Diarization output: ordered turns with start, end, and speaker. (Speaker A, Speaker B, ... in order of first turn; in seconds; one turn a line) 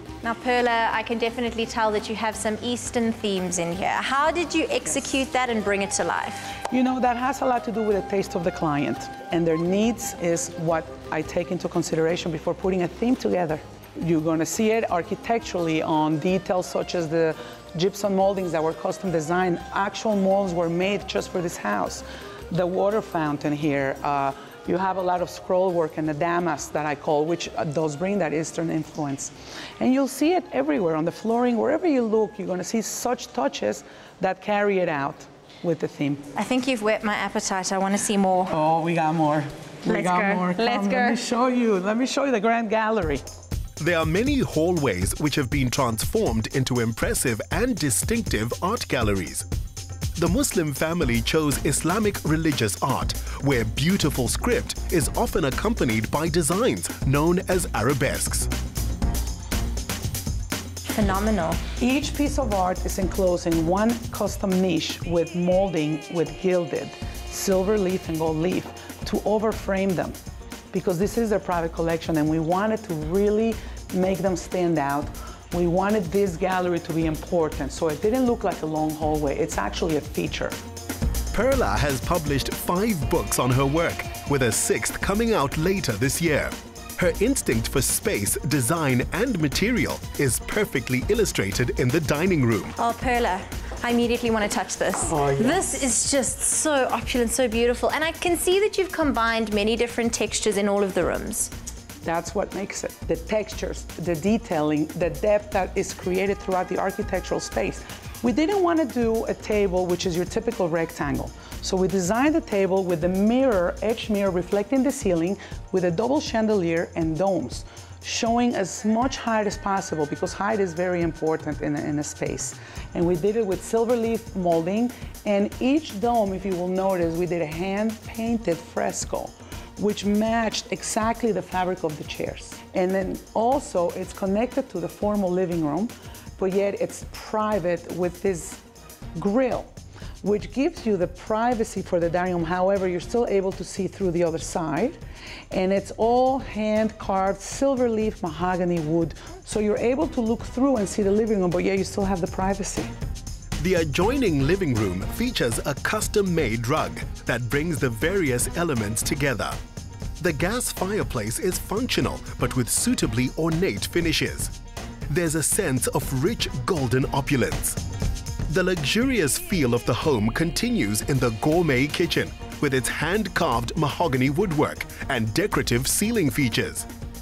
Speaker A: 0.2-6.5
Speaker B: 6.7-36.3
Speaker A: 36.4-38.5
Speaker B: 38.5-43.2
Speaker A: 39.9-41.2
Speaker C: 43.8-49.5
Speaker C: 50.2-58.5
Speaker A: 60.9-61.6
Speaker B: 61.8-70.2
Speaker B: 70.7-80.6
Speaker C: 81.3-92.8
Speaker A: 92.8-101.5
Speaker B: 102.0-138.6
Speaker B: 139.2-139.7
Speaker B: 140.2-145.0
Speaker B: 145.5-152.9
Speaker C: 153.6-159.6
Speaker C: 160.2-164.5
Speaker C: 165.1-167.8
Speaker C: 168.5-176.9